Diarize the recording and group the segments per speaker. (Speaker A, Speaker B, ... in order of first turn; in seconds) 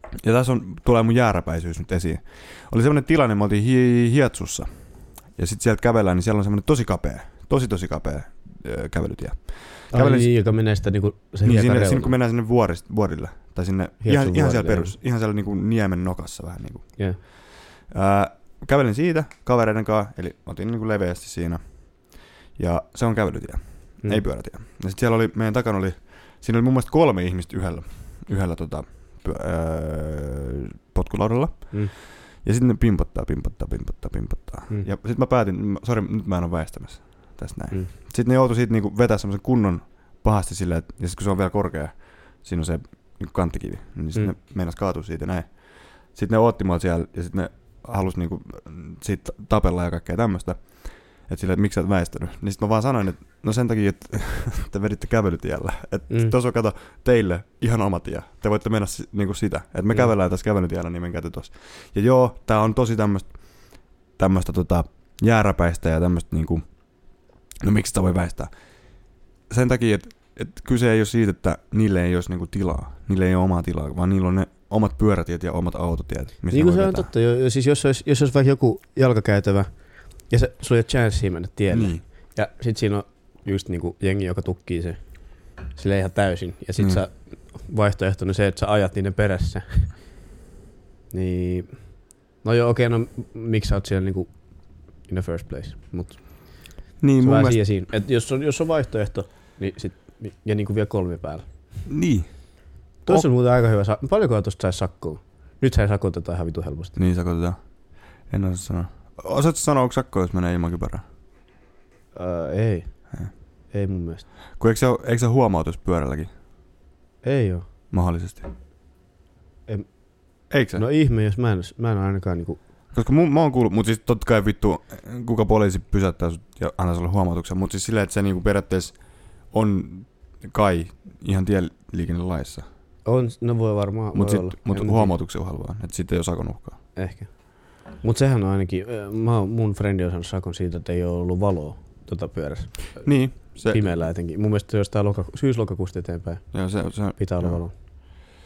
Speaker A: 0.2-10.3, 11.4-77.1, 81.7-82.0, 97.0-97.6, 101.9-103.3, 107.0-111.1, 114.5-116.3, 117.9-118.5, 120.5-120.9, 122.9-132.7, 134.1-136.8, 143.0-144.0, 146.5-148.0
Speaker B: 9.9-12.2, 14.0-14.9, 76.5-90.0, 91.1-101.8, 103.1-107.0, 112.1-114.3, 117.2-117.7, 119.7-122.6, 133.1-135.2, 137.0-147.8